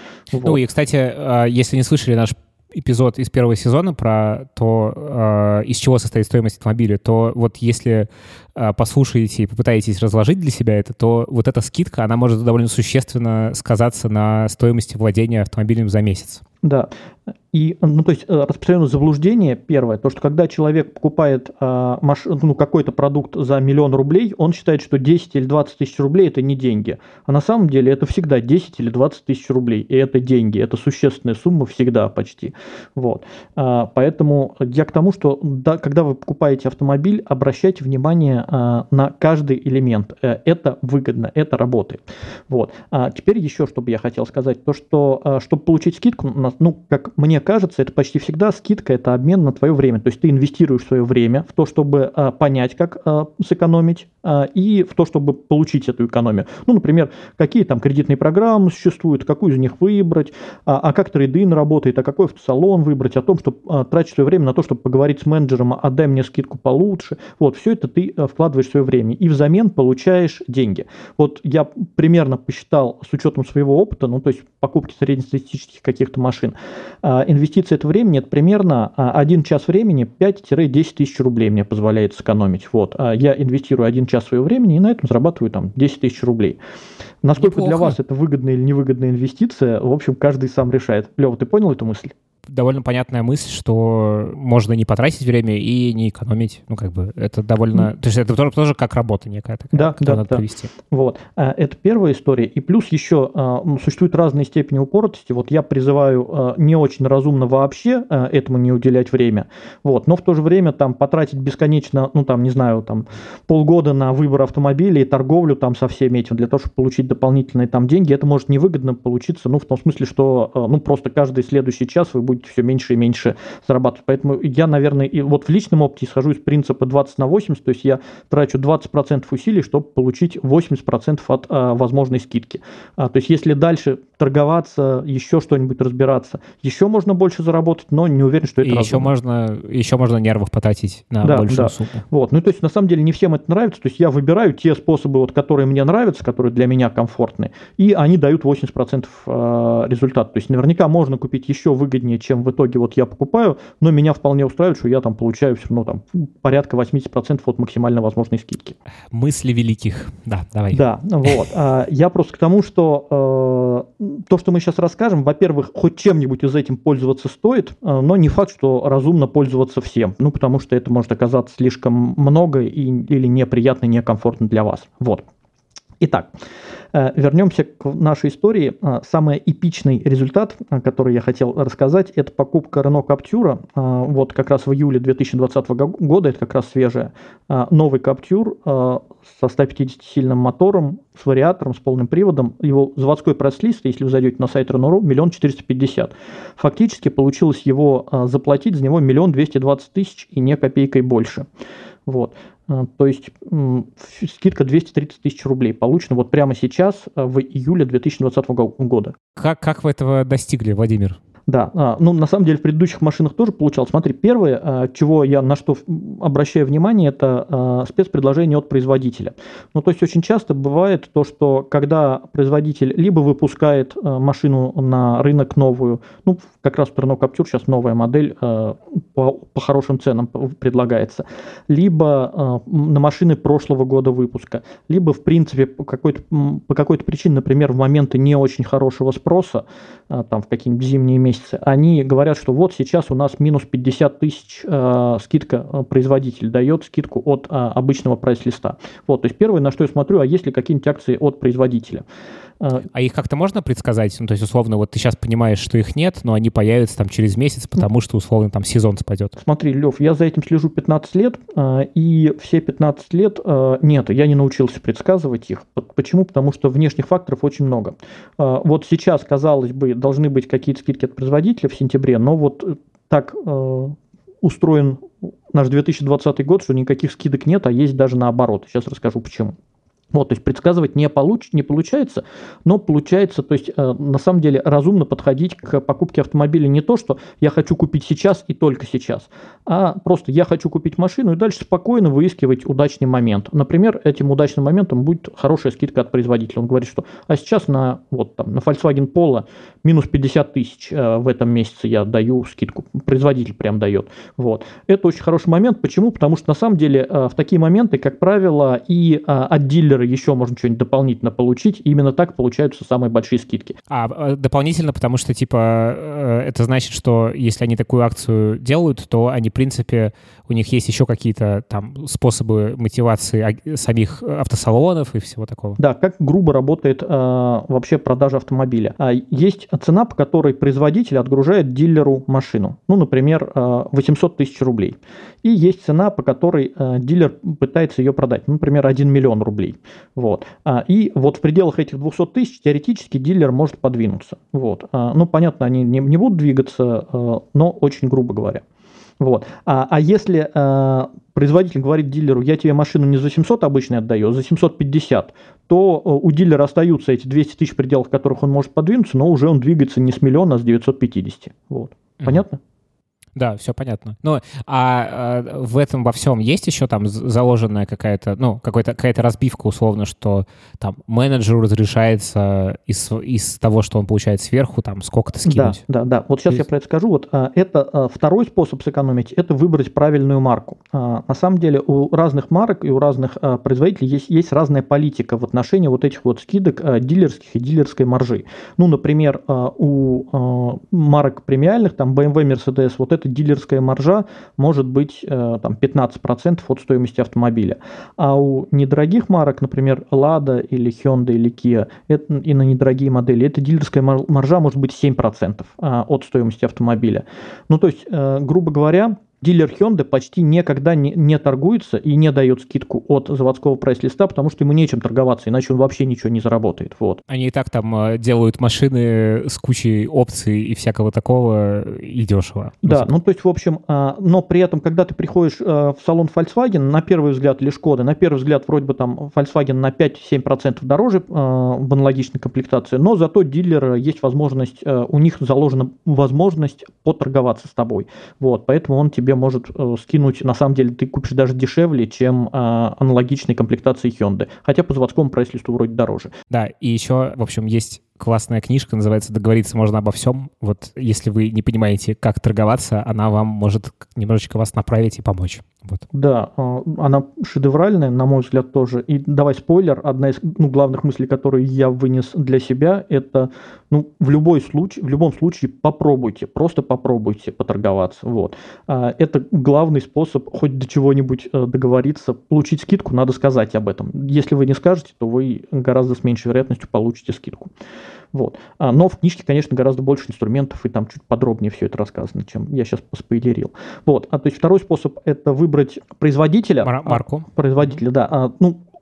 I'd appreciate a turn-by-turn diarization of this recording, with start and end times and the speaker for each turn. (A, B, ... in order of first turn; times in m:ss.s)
0:00.3-0:00.6 A
0:00.4-0:16.4 B
0:16.6-0:16.9 A
0:17.5-1:26.6 A
1:27.2-1:32.2 A
1:27.4-1:28.0 B
1:32.5-1:40.7 B
1:39.7-2:19.1 A
2:18.6-2:22.0 B
2:21.2-2:38.8 A
2:39.1-2:41.4 B
2:40.7-2:55.2 A
2:56.0-2:56.3 A
2:56.9-3:21.5 A
3:22.1-3:29.2 A
3:29.4-3:31.2 B
3:31.5-4:12.0 A
4:12.8-4:19.4 B
4:19.4-4:39.5 A
4:40.1-5:13.8 A
5:13.9-5:25.8 B
5:25.8-5:48.6 A
5:49.2-6:02.6 A
6:03.4-6:15.8 B
6:15.5-6:57.2 A
6:57.3-7:03.1 B
7:02.8-7:26.3 A
7:26.5-7:36.0 B
7:36.1-7:57.7 A
7:58.3-8:08.8 A
8:06.8-8:08.0 B